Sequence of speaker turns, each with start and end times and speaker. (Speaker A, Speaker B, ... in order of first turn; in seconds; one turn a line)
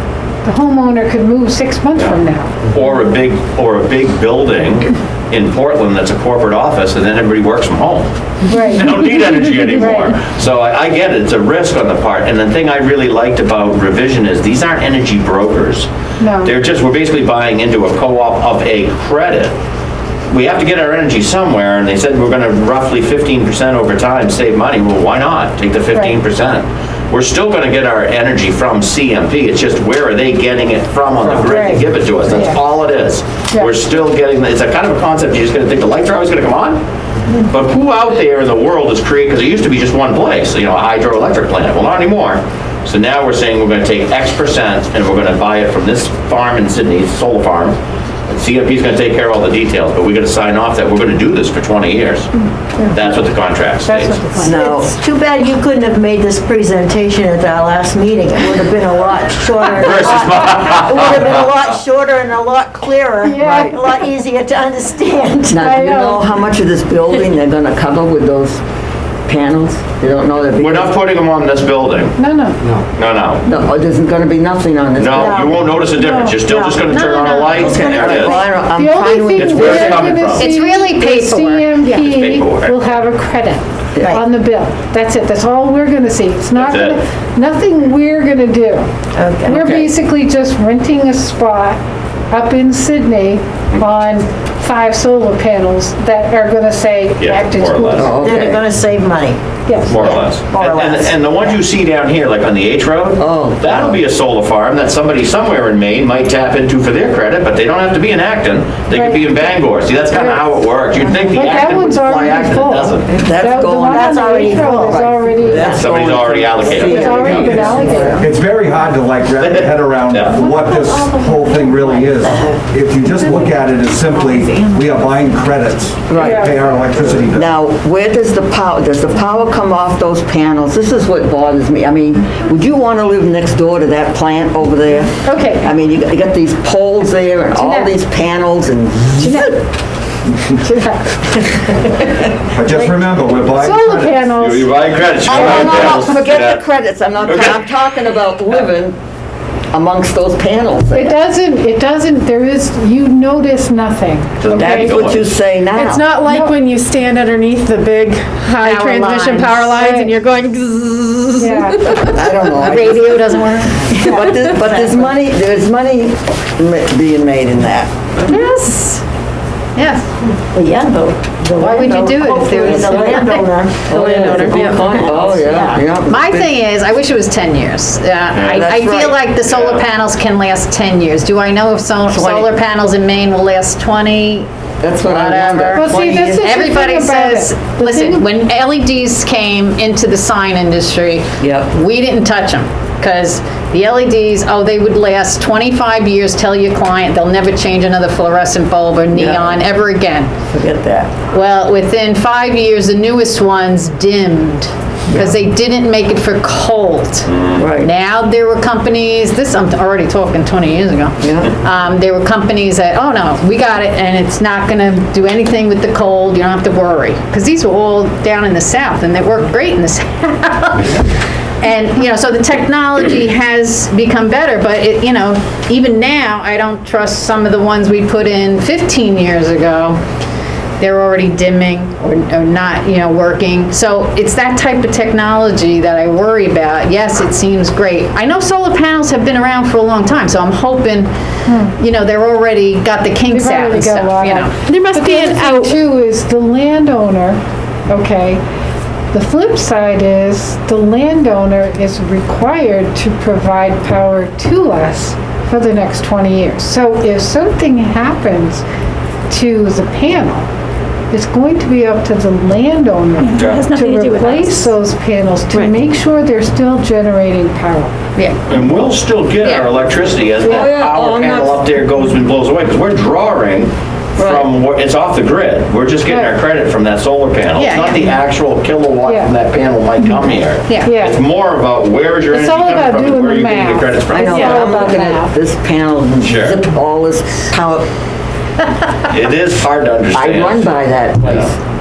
Speaker A: 0.4-2.6
Speaker B: 2.0-15.9
Speaker A: 8.5-8.9
Speaker A: 9.8-10.1
Speaker A: 16.2-16.5
Speaker B: 16.4-19.6
Speaker B: 20.3-36.8
Speaker A: 31.4-32.6
Speaker B: 37.4-52.3
Speaker B: 52.9-54.3
Speaker A: 53.9-54.7
Speaker C: 54.4-54.9
Speaker D: 54.4-65.7
Speaker C: 58.5-58.7
Speaker B: 59.7-61.5
Speaker A: 63.2-63.8
Speaker C: 63.4-63.7
Speaker C: 65.5-68.6
Speaker A: 65.5-66.2
Speaker C: 69.3-71.0
Speaker B: 70.6-72.2
Speaker A: 72.2-72.8
Speaker B: 72.9-73.4
Speaker C: 73.5-75.6
Speaker B: 75.0-78.4
Speaker D: 75.2-75.5
Speaker A: 76.0-76.4
Speaker D: 76.5-76.8
Speaker E: 76.9-78.2
Speaker D: 77.6-78.5
Speaker C: 77.9-80.2
Speaker A: 78.6-88.9
Speaker B: 79.3-80.5
Speaker E: 80.3-81.8
Speaker B: 81.8-82.8
Speaker C: 84.0-84.2
Speaker B: 86.6-87.0
Speaker D: 89.2-89.6
Speaker A: 89.4-91.8
Speaker B: 89.5-89.9
Speaker A: 92.3-98.1
Speaker B: 97.2-98.2
Speaker C: 97.9-98.6
Speaker D: 98.2-99.4
Speaker A: 99.7-100.2
Speaker B: 99.8-113.3
Speaker D: 100.5-101.2
Speaker C: 103.2-103.9
Speaker A: 108.9-109.3
Speaker A: 110.1-110.5
Speaker C: 111.2-111.8
Speaker A: 111.3-115.8
Speaker C: 113.2-118.3
Speaker D: 113.5-115.6
Speaker B: 115.6-117.7
Speaker A: 116.8-118.3
Speaker F: 117.3-127.5
Speaker B: 119.3-120.5
Speaker G: 120.3-120.8
Speaker D: 120.6-121.3
Speaker G: 121.5-121.9
Speaker D: 122.0-122.5
Speaker G: 123.9-125.4
Speaker C: 126.1-126.5
Speaker A: 126.2-126.7
Speaker C: 127.3-139.5
Speaker A: 135.2-135.7
Speaker A: 137.6-137.9
Speaker A: 139.2-139.6
Speaker A: 140.5-142.1
Speaker F: 142.6-144.3
Speaker A: 142.7-144.7
Speaker B: 144.3-146.6
Speaker C: 145.2-149.0
Speaker B: 147.2-147.6
Speaker C: 149.7-151.2
Speaker A: 150.9-155.0
Speaker B: 154.4-155.2
Speaker C: 154.5-156.1
Speaker G: 155.8-162.9
Speaker A: 156.2-156.6
Speaker E: 158.6-160.2
Speaker A: 159.8-160.1
Speaker A: 161.4-162.0
Speaker C: 162.0-167.9
Speaker E: 162.6-163.9
Speaker D: 164.0-165.1
Speaker E: 168.3-169.0
Speaker E: 169.8-170.1
Speaker D: 170.5-175.8
Speaker E: 171.5-184.5
Speaker C: 171.6-176.5
Speaker B: 178.3-178.7
Speaker C: 178.4-179.2
Speaker B: 179.4-179.9
Speaker C: 182.1-182.6
Speaker C: 184.8-186.5
Speaker E: 185.0-200.3
Speaker A: 185.7-188.2
Speaker C: 191.4-191.7
Speaker C: 199.1-199.6
Speaker C: 200.5-201.1
Speaker E: 201.3-221.0
Speaker C: 205.1-205.4
Speaker B: 207.3-207.7
Speaker C: 207.6-207.9
Speaker C: 211.2-211.5
Speaker E: 221.6-230.0
Speaker E: 230.8-241.1
Speaker A: 241.5-241.8
Speaker E: 241.8-244.7
Speaker A: 243.3-248.4
Speaker G: 244.6-245.8
Speaker A: 249.1-258.6
Speaker A: 259.3-260.5
Speaker A: 261.1-267.9
Speaker G: 263.3-264.7
Speaker B: 263.4-263.8
Speaker B: 268.5-284.9
Speaker E: 269.4-269.7
Speaker C: 270.4-271.6
Speaker C: 274.2-274.5
Speaker A: 276.1-276.3
Speaker E: 277.6-278.2
Speaker A: 279.1-279.3
Speaker E: 280.7-280.9
Speaker A: 280.8-281.2
Speaker A: 282.3-285.3
Speaker C: 284.1-287.8
Speaker B: 286.2-286.6
Speaker B: 289.1-291.5
Speaker C: 290.1-291.6